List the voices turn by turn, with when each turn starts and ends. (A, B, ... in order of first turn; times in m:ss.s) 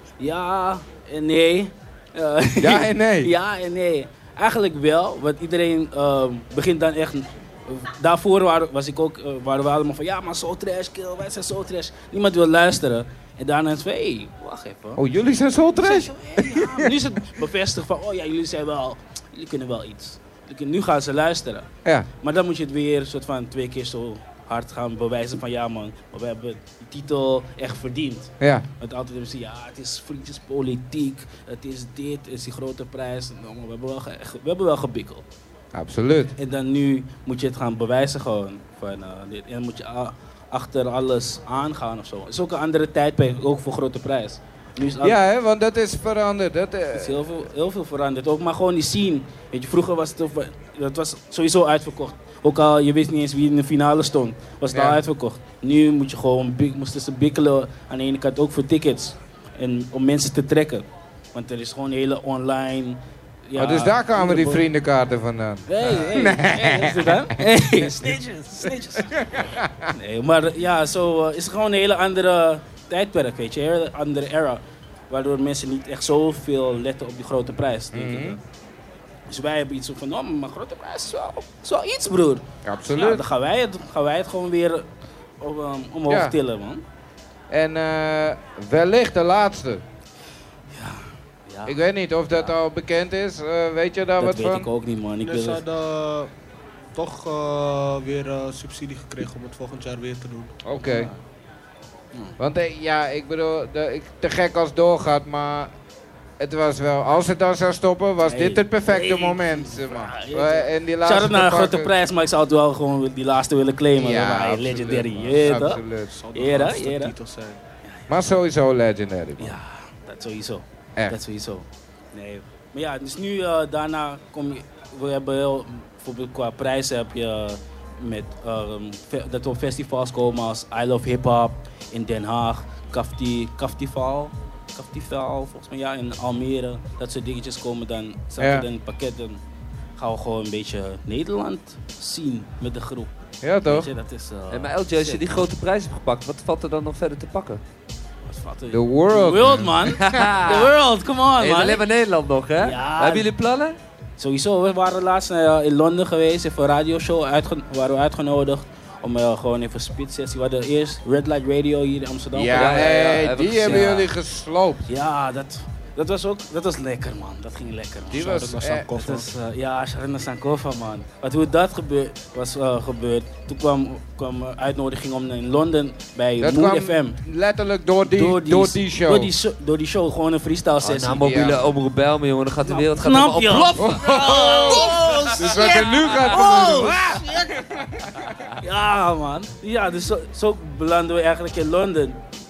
0:00.2-0:15.0 A
0:02.6-0:03.3 B
0:15.0-0:17.0 B
0:15.8-0:21.7 A
0:22.2-0:35.2 A
0:28.4-0:28.6 B
0:35.7-0:36.3 B
0:36.4-0:45.2 A
0:45.0-0:47.3 B
0:46.9-1:04.7 A
0:54.7-0:55.0 B
1:03.6-1:08.0 B
1:05.7-1:09.4 A
1:09.0-1:09.9 B
1:09.9-1:18.4 A
1:17.9-1:18.4 B
1:19.3-1:24.9 A
1:22.6-1:23.2 B
1:25.4-1:26.8 A
1:26.1-1:26.4 B
1:27.5-1:29.8 B
1:30.7-1:32.6 A
1:31.7-1:34.7 B
1:34.2-1:35.6 A
1:35.2-1:36.3 C
1:37.0-1:40.6 C
1:40.6-1:41.1 B
1:40.8-1:41.2 A
1:42.4-1:45.7 B
1:46.4-1:51.9 B
1:48.2-1:57.1 A
1:53.9-1:56.1 B
1:56.1-1:57.6 C
1:58.1-1:59.6 B
1:59.4-2:19.4 A
2:18.4-2:18.7 B
2:20.0-2:25.5 A
2:23.4-2:23.9 B
2:24.5-2:27.6 D
2:28.3-2:31.9 A
2:28.7-2:29.9 B
2:30.0-2:30.7 D
2:31.4-2:33.8 D
2:32.6-2:33.3 A
2:34.2-2:44.1 A
2:42.3-2:44.9 B
2:42.5-2:44.1 D
2:44.9-2:57.2 A
2:48.1-2:48.9 B
2:48.1-2:49.3 C
2:56.4-2:59.3 B
2:58.0-3:01.5 A
3:00.8-3:06.4 D
3:01.2-3:01.7 B
3:02.6-3:07.6 A
3:03.8-3:08.3 B
3:08.6-3:12.2 A